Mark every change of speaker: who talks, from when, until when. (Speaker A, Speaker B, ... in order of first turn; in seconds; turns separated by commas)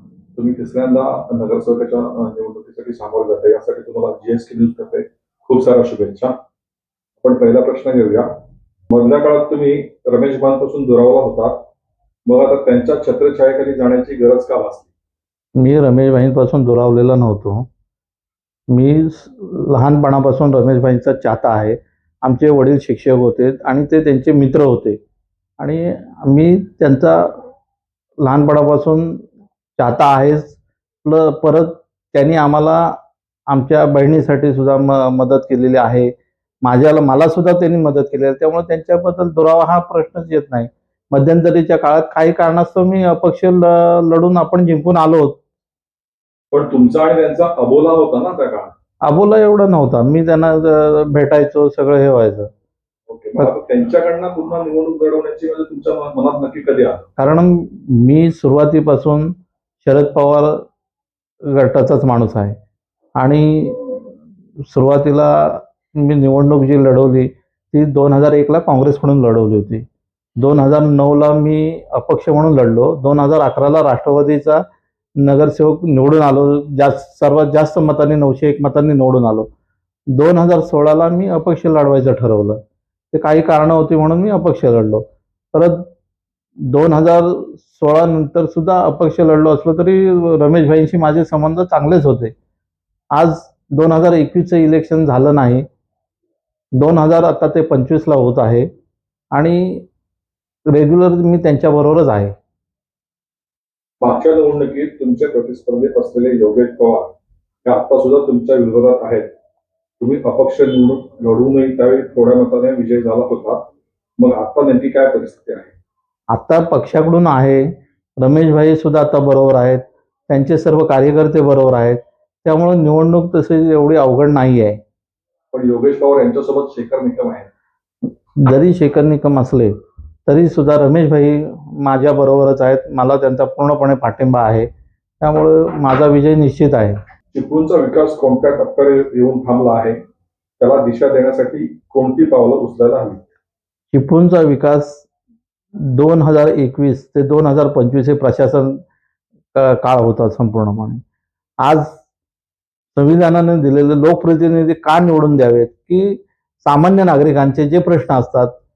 Speaker A: 0.4-6.3, Speaker A: 7.2-8.3, Speaker A: 8.9-11.7, Speaker A: 12.3-14.9, Speaker B: 15.6-17.7, Speaker B: 18.7-25.0, Speaker B: 25.6-27.3, Speaker B: 28.2-29.2, Speaker B: 29.8-33.0, Speaker B: 33.5-45.4, Speaker A: 46.5-48.7, Speaker B: 49.0-52.5, Speaker A: 53.1-57.1, Speaker B: 57.2-60.5, Speaker B: 61.5-62.5, Speaker B: 63.2-64.1, Speaker B: 64.7-69.8, Speaker B: 70.4-74.6, Speaker B: 75.2-79.5, Speaker B: 80.1-82.6, Speaker B: 83.1-85.9, Speaker B: 86.7-92.3, Speaker B: 93.1-95.6, Speaker B: 96.8-98.7, Speaker B: 99.3-99.9, Speaker B: 100.7-102.3, Speaker A: 104.0-107.1, Speaker A: 107.7-109.3, Speaker A: 110.0-115.7, Speaker B: 116.3-117.6, Speaker B: 118.2-124.8, Speaker A: 125.5-127.5, Speaker B: 128.4-129.7, Speaker B: 130.3-134.7, Speaker B: 135.2-137.0, Speaker A: 137.3-140.0, Speaker A: 140.6-143.3, Speaker B: 143.9-145.1, Speaker B: 145.9-148.8, Speaker B: 149.5-151.0, Speaker B: 151.6-152.0, Speaker B: 153.0-158.5